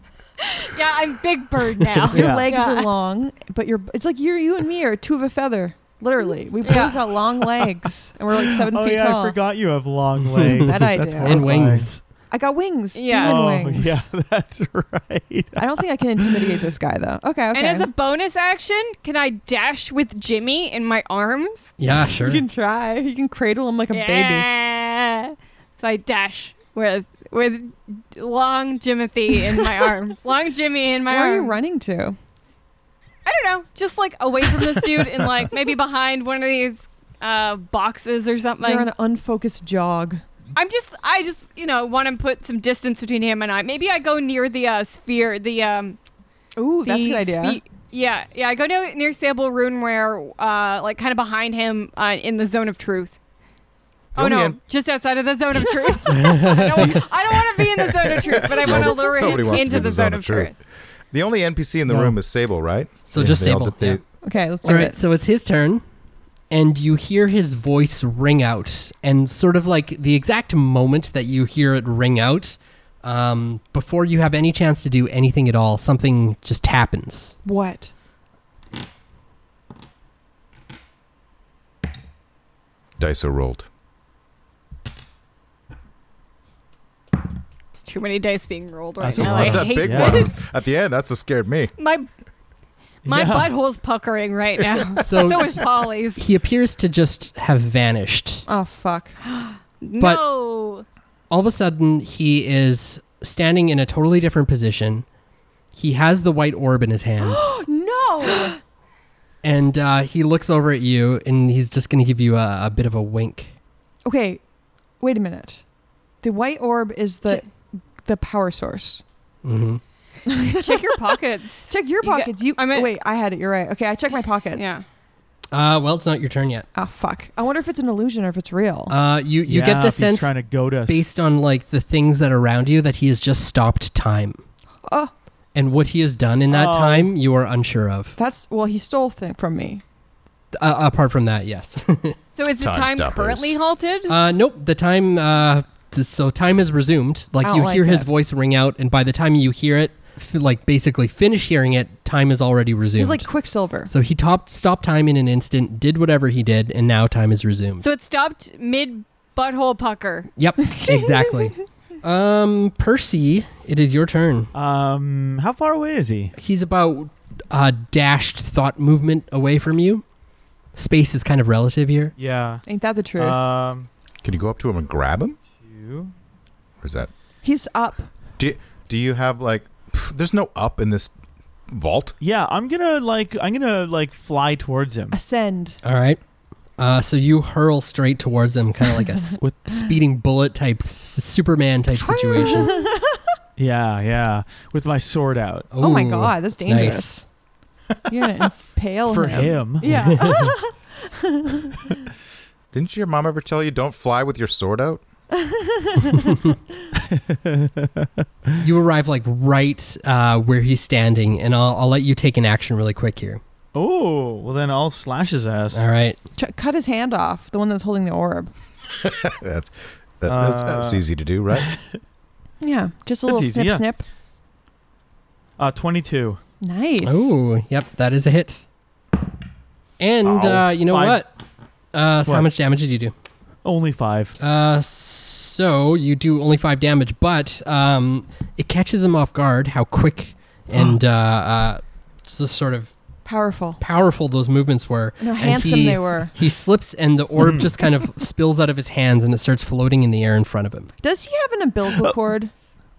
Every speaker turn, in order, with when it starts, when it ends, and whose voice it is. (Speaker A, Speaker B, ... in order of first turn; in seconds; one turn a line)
Speaker A: 0.4-2.9
Speaker B: 2.1-2.5
Speaker C: 2.1-9.4
Speaker A: 6.6-7.1
Speaker B: 8.5-11.9
Speaker D: 10.3-12.0
Speaker C: 10.6-11.4
Speaker C: 12.3-14.1
Speaker A: 12.9-13.4
Speaker B: 13.2-16.6
Speaker C: 15.6-17.9
Speaker A: 17.5-21.7
Speaker D: 21.8-22.4
Speaker C: 22.1-24.5
Speaker A: 23.9-31.6
Speaker C: 31.1-32.2
Speaker A: 33.2-38.9
Speaker C: 38.6-40.2
Speaker A: 40.5-46.0
Speaker C: 46.5-47.6
Speaker A: 46.8-53.2
Speaker E: 54.1-54.6
Speaker A: 54.1-60.5
Speaker C: 55.9-56.2
Speaker D: 56.0-57.0
Speaker E: 56.8-60.5
Speaker E: 61.1-64.0
Speaker B: 61.9-62.1
Speaker D: 63.1-64.0
Speaker C: 64.2-65.0
Speaker D: 64.6-65.8
Speaker D: 66.5-77.4
Speaker C: 77.4-77.9
Speaker E: 83.0-83.7
Speaker A: 87.7-90.3
Speaker B: 89.0-90.3
Speaker E: 89.2-91.7
Speaker A: 91.8-92.1
Speaker B: 93.0-93.5
Speaker A: 93.0-96.2
Speaker D: 95.0-95.6
Speaker D: 96.2-98.5
Speaker C: 98.5-99.2
Speaker A: 99.2-100.8
Speaker D: 101.3-105.0
Speaker D: 105.7-107.6
Speaker C: 107.2-108.6
Speaker D: 109.4-113.5
Speaker C: 114.0-114.4
Speaker C: 115.0-115.6
Speaker C: 116.2-119.0
Speaker D: 119.4-119.8
Speaker C: 120.2-124.8
Speaker A: 120.6-122.9
Speaker A: 124.5-124.8
Speaker D: 125.5-126.7
Speaker C: 126.7-128.9
Speaker D: 128.9-130.3
Speaker B: 129.4-131.0
Speaker D: 130.8-134.4
Speaker C: 134.9-135.1
Speaker D: 135.5-138.2
Speaker B: 136.5-137.1
Speaker C: 138.2-139.8
Speaker D: 140.5-142.2
Speaker A: 142.3-144.1
Speaker E: 142.6-143.6
Speaker D: 144.1-153.3
Speaker C: 147.4-148.1
Speaker C: 153.0-153.9
Speaker D: 153.9-157.8
Speaker A: 157.8-160.3
Speaker D: 160.4-164.5
Speaker C: 160.7-161.4
Speaker B: 164.5-166.3
Speaker D: 166.4-170.0
Speaker D: 170.7-172.1
Speaker B: 172.2-172.6
Speaker C: 172.7-173.4
Speaker B: 173.2-173.9
Speaker E: 174.2-175.4
Speaker B: 175.5-176.1
Speaker E: 176.8-177.1
Speaker C: 177.4-178.1
Speaker E: 178.4-181.1
Speaker E: 181.7-182.1
Speaker B: 182.2-185.2
Speaker C: 185.1-185.8
Speaker D: 185.8-186.2
Speaker D: 186.8-192.8
Speaker C: 192.0-193.2
Speaker B: 193.6-195.7
Speaker D: 195.7-197.2
Speaker C: 195.8-197.2
Speaker C: 198.1-201.9
Speaker D: 199.1-200.5
Speaker B: 199.2-200.1
Speaker E: 202.7-205.0
Speaker C: 205.3-206.6
Speaker B: 206.9-208.6
Speaker D: 208.6-213.4
Speaker B: 213.7-215.8
Speaker D: 215.7-216.2
Speaker C: 216.3-218.5
Speaker E: 219.0-221.7
Speaker B: 220.3-221.0
Speaker B: 221.5-221.9
Speaker C: 222.6-224.0
Speaker B: 223.2-223.8
Speaker B: 225.6-226.4
Speaker C: 226.6-227.3
Speaker D: 227.0-228.6
Speaker D: 230.0-231.3
Speaker B: 230.2-231.2
Speaker D: 231.9-233.1
Speaker B: 233.6-234.4
Speaker D: 234.4-242.9
Speaker C: 243.2-243.8
Speaker D: 243.8-250.9
Speaker C: 245.2-246.3
Speaker B: 247.4-247.7
Speaker C: 251.0-252.5